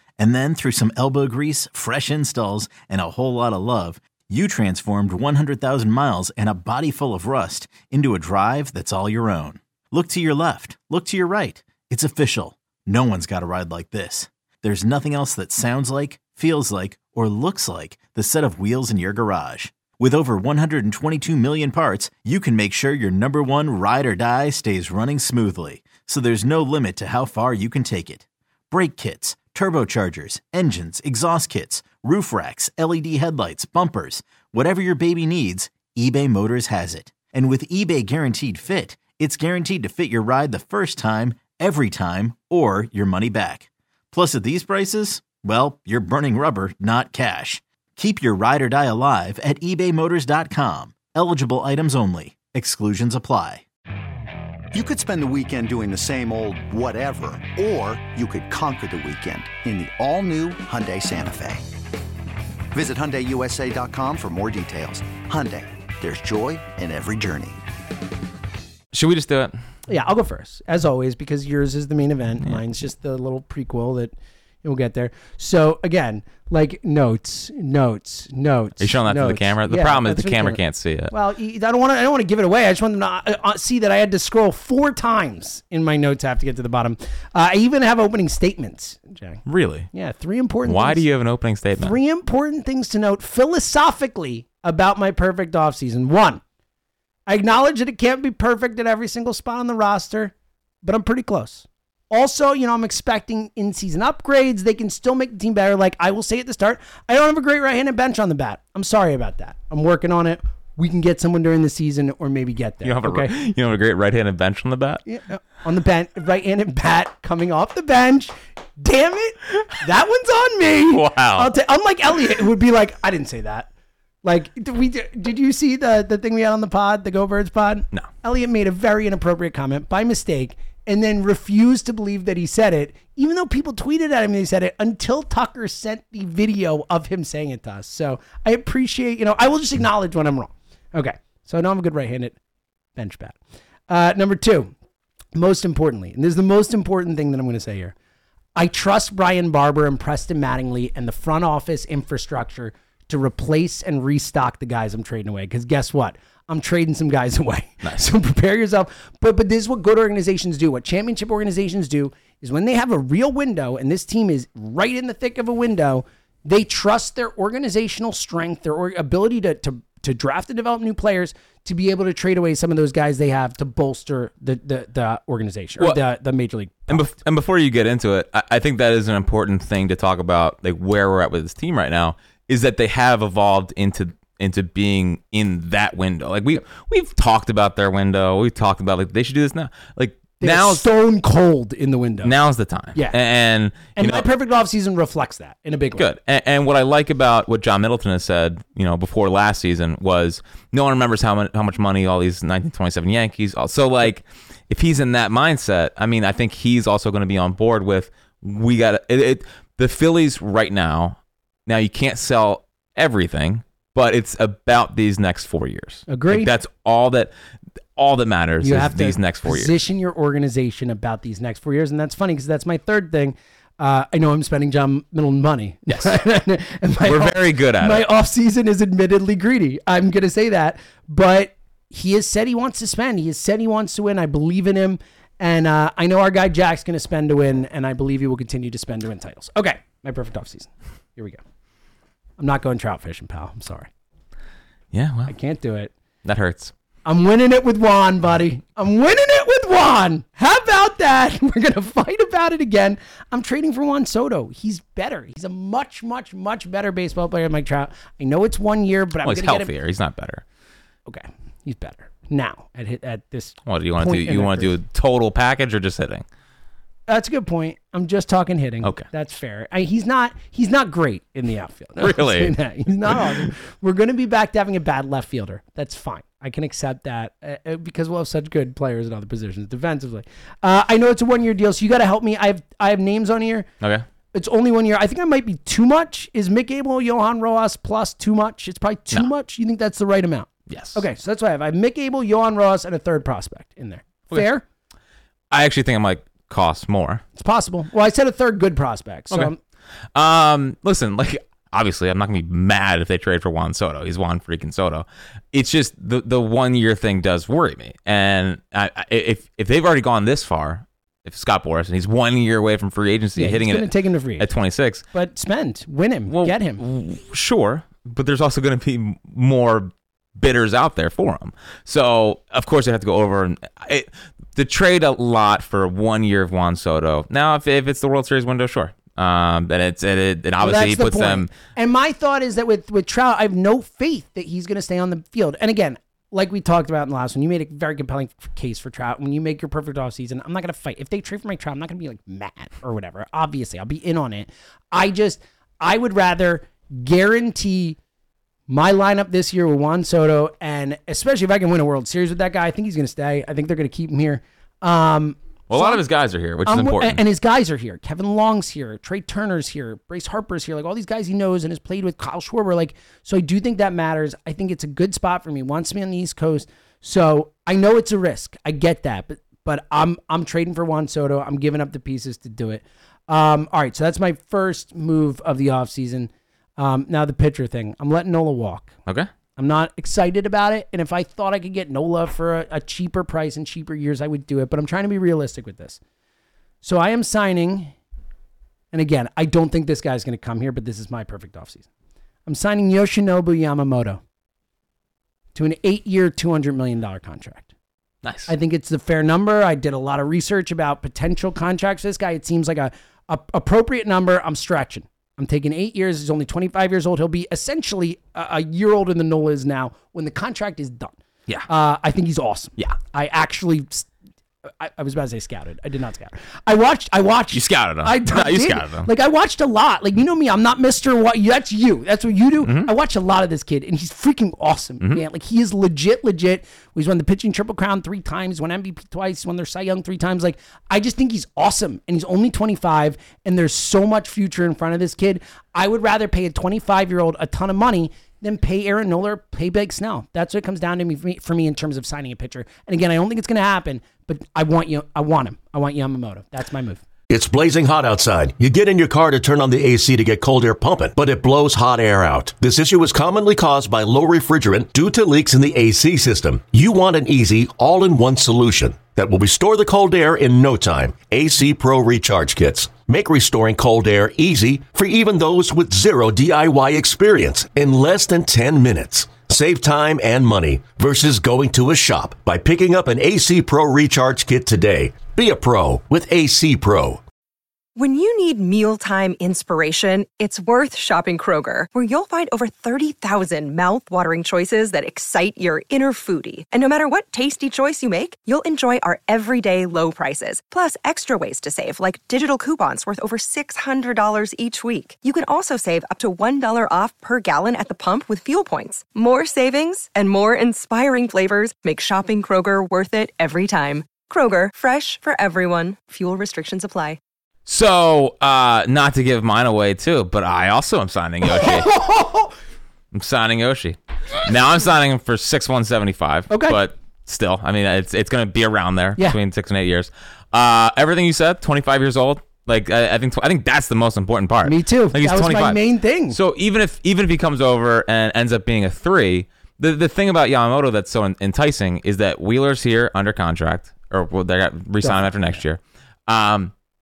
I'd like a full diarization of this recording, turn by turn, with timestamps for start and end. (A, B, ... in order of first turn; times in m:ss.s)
0:00.2-0:53.6 A
0:54.7-1:01.6 B
1:02.7-1:07.6 B
1:08.9-1:09.6 C
1:09.9-1:31.1 D
1:18.8-1:21.1 C
1:29.4-1:29.9 C
1:30.6-1:32.0 C
1:31.8-1:36.4 D
1:37.3-1:40.3 D
1:40.8-1:53.3 D
1:52.8-1:55.0 C
1:55.1-2:03.7 D
2:00.9-2:01.5 C
2:04.2-2:22.4 D
2:23.0-2:23.4 D
2:23.9-2:24.7 D
2:25.4-2:27.9 D
2:28.6-2:57.0 D
2:37.8-2:38.1 C
2:56.9-3:10.9 C
3:10.4-3:12.4 D
3:12.2-3:14.3 C
3:14.0-3:16.0 D
3:15.9-3:37.3 C
3:36.1-3:36.5 D
3:38.0-3:39.8 C
3:38.6-4:01.4 D
3:45.9-3:46.2 C
3:47.0-3:48.1 C
4:02.4-4:03.9 D
4:04.9-4:05.3 C
4:05.3-4:05.9 D
4:06.2-4:06.7 C
4:07.1-4:19.7 D
4:19.2-4:20.4 C
4:21.1-4:24.7 D
4:23.6-4:26.2 C
4:27.1-4:43.7 D
4:32.0-4:32.6 C
4:33.1-4:33.5 C
4:44.3-4:54.6 D
4:50.7-4:51.0 C
4:55.5-4:57.2 C
4:57.4-4:59.6 D
5:00.2-5:15.1 C
5:13.4-5:14.4 D
5:15.1-5:16.8 D
5:16.3-5:31.5 C
5:30.6-5:48.0 D
5:48.7-5:56.0 D
5:55.7-5:57.2 C
5:56.6-6:18.9 D
6:19.6-6:26.0 D
6:26.8-6:27.9 D
6:28.9-6:31.8 D
6:32.5-6:34.2 D
6:35.6-6:37.7 D
6:38.2-6:38.5 C
6:38.5-6:51.2 D
6:51.7-6:54.1 D
6:54.8-7:27.0 D
6:57.5-6:59.1 C
7:02.6-7:02.9 C
7:27.3-7:57.2 E
7:58.0-8:27.2 F
8:27.7-8:31.9 C
8:31.4-8:32.5 D
8:33.1-8:56.7 C
8:36.5-8:36.8 D
8:44.6-8:46.4 D